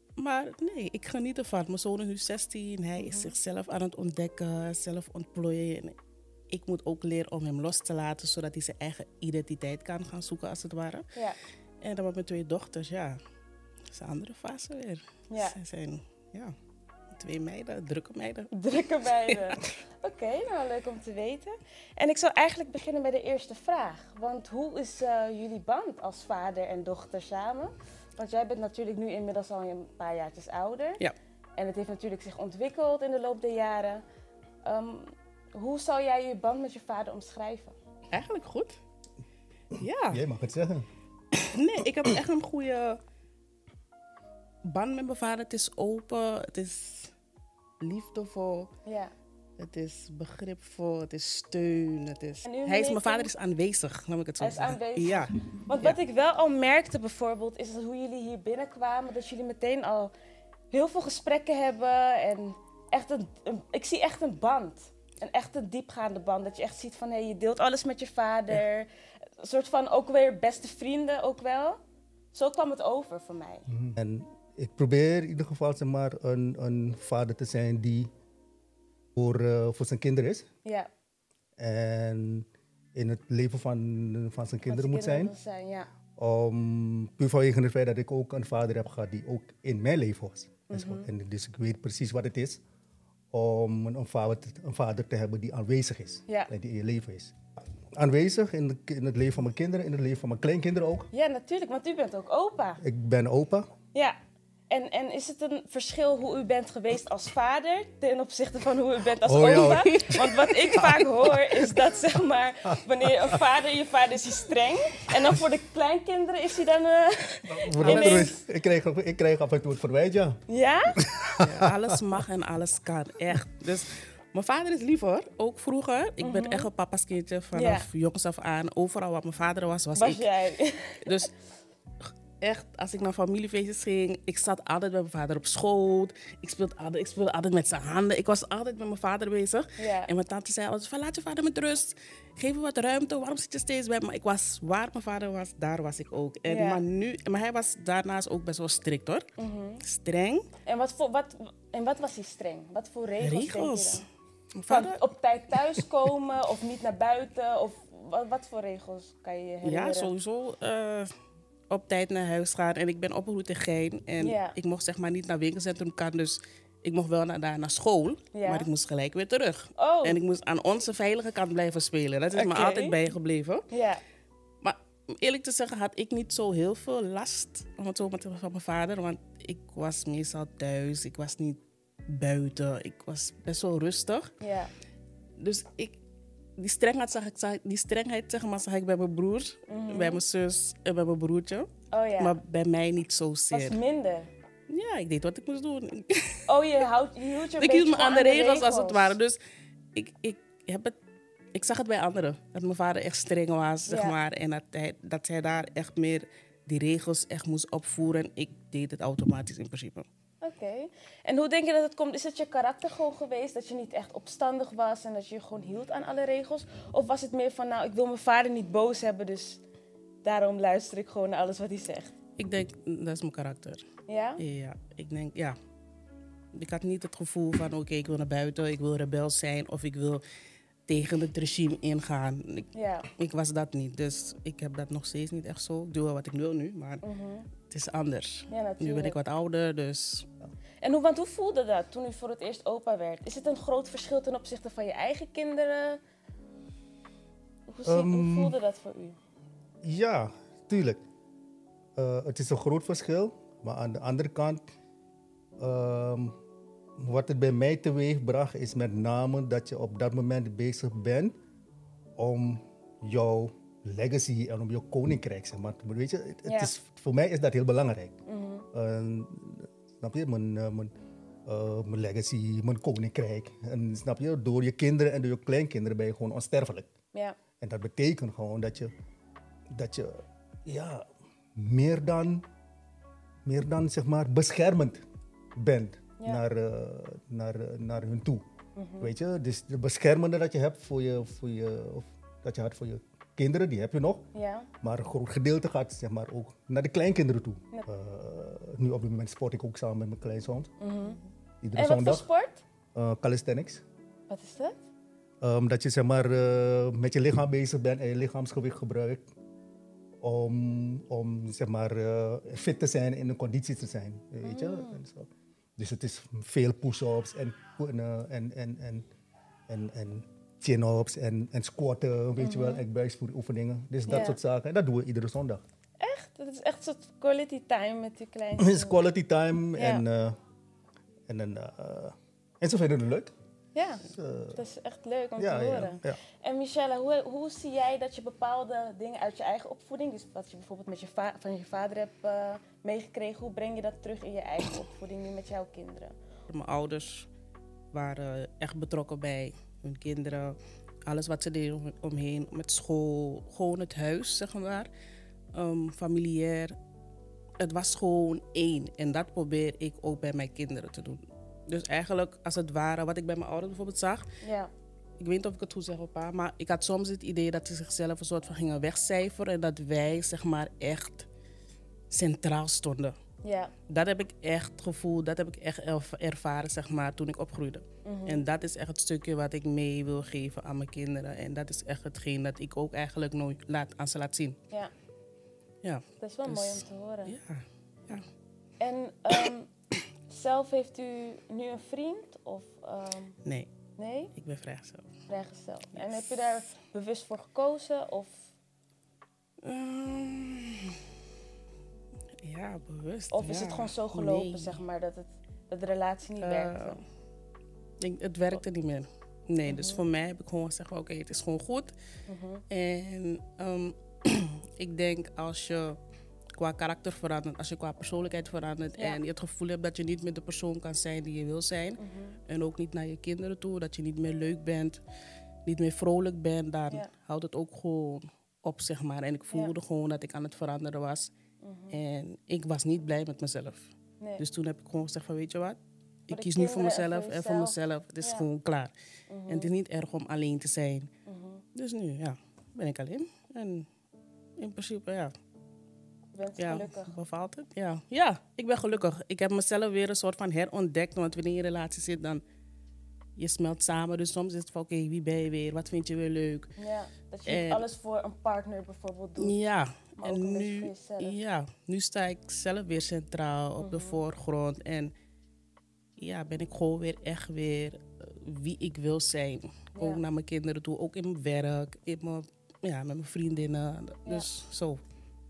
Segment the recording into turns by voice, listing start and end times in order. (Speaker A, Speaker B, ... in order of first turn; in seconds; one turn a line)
Speaker A: 0.2-6.0
Speaker B: 3.0-3.3
Speaker A: 6.5-11.1
Speaker A: 11.8-13.2
Speaker A: 13.9-16.5
Speaker B: 15.3-15.6
Speaker A: 17.1-18.5
Speaker B: 18.5-31.0
Speaker A: 19.3-19.6
Speaker B: 31.6-34.0
Speaker B: 34.6-37.7
Speaker A: 38.1-38.8
Speaker C: 39.7-40.9
Speaker A: 39.8-40.2
Speaker A: 41.3-43.0
Speaker A: 44.7-47.1
Speaker A: 47.8-48.7
Speaker B: 48.9-49.1
Speaker A: 49.6-56.0
Speaker B: 52.5-53.3
Speaker B: 54.4-60.1
Speaker B: 60.7-68.9
Speaker B: 69.4-71.8
Speaker B: 72.3-73.7
Speaker C: 73.7-78.1
Speaker C: 79.2-80.5
Speaker C: 81.6-85.3
Speaker B: 84.7-85.9
Speaker C: 86.2-92.6
Speaker B: 90.7-91.1
Speaker C: 93.3-97.4
Speaker C: 97.9-101.1
Speaker B: 101.1-102.8
Speaker C: 102.8-103.7
Speaker B: 104.7-118.4
Speaker C: 109.2-111.9
Speaker A: 109.6-110.6
Speaker C: 112.7-113.4
Speaker C: 117.5-120.4
Speaker A: 117.8-118.3
Speaker B: 120.5-121.0
Speaker C: 120.9-122.2
Speaker A: 121.4-130.3
Speaker B: 126.2-126.7
Speaker B: 127.5-127.9
Speaker B: 130.0-131.2
Speaker A: 131.0-131.3
Speaker A: 132.4-149.3
Speaker B: 139.8-140.1
Speaker B: 146.5-146.8
Speaker B: 149.4-149.8
Speaker A: 149.8-150.5
Speaker B: 150.7-154.0
Speaker A: 153.2-154.0
Speaker A: 154.6-155.0
Speaker B: 154.7-160.1
Speaker A: 159.6-161.1
Speaker A: 161.7-173.7
Speaker B: 164.2-164.5
Speaker B: 168.3-168.7
Speaker B: 169.8-170.2
Speaker B: 172.3-173.0
Speaker B: 173.7-174.0
Speaker A: 174.6-184.3
Speaker B: 184.4-184.7
Speaker A: 185.4-185.9
Speaker A: 186.6-193.8
Speaker B: 189.7-190.2
Speaker B: 191.9-192.4
Speaker B: 193.5-194.3
Speaker A: 194.7-196.4
Speaker B: 196.5-199.2
Speaker A: 197.6-199.4
Speaker A: 199.9-200.9
Speaker A: 201.5-210.1
Speaker B: 203.9-204.2
Speaker B: 210.4-219.6
Speaker B: 220.2-222.1
Speaker A: 222.4-223.8
Speaker B: 224.1-224.4
Speaker A: 224.4-225.6
Speaker A: 226.5-230.2
Speaker A: 230.9-237.0
Speaker B: 232.7-233.1
Speaker B: 237.0-237.5
Speaker A: 237.7-240.3
Speaker B: 238.5-239.2
Speaker B: 240.8-246.0
Speaker B: 247.7-249.2
Speaker C: 247.8-248.6
Speaker C: 249.8-251.0
Speaker C: 252.0-254.6
Speaker C: 255.6-256.4
Speaker C: 257.0-261.3
Speaker C: 262.2-268.1
Speaker B: 266.5-266.7
Speaker B: 268.3-268.7
Speaker C: 268.7-270.9
Speaker C: 271.5-276.9
Speaker C: 277.6-278.9
Speaker C: 279.7-282.4
Speaker C: 283.5-285.0
Speaker C: 285.6-288.4
Speaker B: 288.8-289.1
Speaker C: 289.0-294.3
Speaker B: 294.3-294.7
Speaker C: 294.8-300.7
Speaker B: 300.8-301.2
Speaker C: 301.6-302.3
Speaker B: 301.8-302.6
Speaker C: 302.9-303.8
Speaker B: 304.3-304.8
Speaker C: 305.4-309.3
Speaker C: 310.2-319.1
Speaker B: 314.4-315.0
Speaker C: 319.7-325.6
Speaker B: 322.4-322.8
Speaker B: 324.1-324.4
Speaker B: 326.0-329.0
Speaker C: 328.6-330.4
Speaker B: 329.8-330.0
Speaker C: 331.3-333.3
Speaker B: 333.8-334.0
Speaker C: 334.0-334.6
Speaker B: 334.6-346.2
Speaker C: 335.4-336.2
Speaker A: 346.5-347.3
Speaker A: 347.9-350.6
Speaker A: 351.1-354.9
Speaker A: 355.5-356.8
Speaker A: 357.6-364.2
Speaker B: 364.4-364.7
Speaker A: 365.2-371.3
Speaker A: 372.1-373.1
Speaker B: 373.4-373.7
Speaker A: 373.9-384.6
Speaker B: 378.1-378.4
Speaker A: 385.8-388.2
Speaker B: 386.2-387.3
Speaker B: 388.8-389.7
Speaker B: 390.3-393.4
Speaker B: 394.0-394.3
Speaker A: 394.4-395.1
Speaker B: 395.3-398.4
Speaker A: 396.0-396.4
Speaker A: 399.6-401.0
Speaker A: 402.4-404.8
Speaker B: 403.3-407.0
Speaker A: 406.4-407.0
Speaker A: 408.0-411.9
Speaker B: 409.7-410.0
Speaker B: 412.3-412.6
Speaker A: 412.7-416.0
Speaker A: 416.6-425.0
Speaker B: 419.0-419.2
Speaker B: 422.0-422.4
Speaker A: 425.7-431.3
Speaker B: 431.6-432.0
Speaker A: 431.9-438.9
Speaker B: 436.3-438.5
Speaker B: 439.3-439.7
Speaker A: 439.5-441.1
Speaker B: 441.3-441.6
Speaker A: 441.8-443.9
Speaker A: 444.6-445.3
Speaker B: 446.3-447.1
Speaker A: 446.6-452.4
Speaker A: 453.4-456.7
Speaker B: 456.8-459.6
Speaker A: 457.5-457.8
Speaker A: 459.4-465.1
Speaker B: 460.2-461.4
Speaker B: 463.8-464.2
Speaker A: 466.2-475.0
Speaker B: 470.0-470.2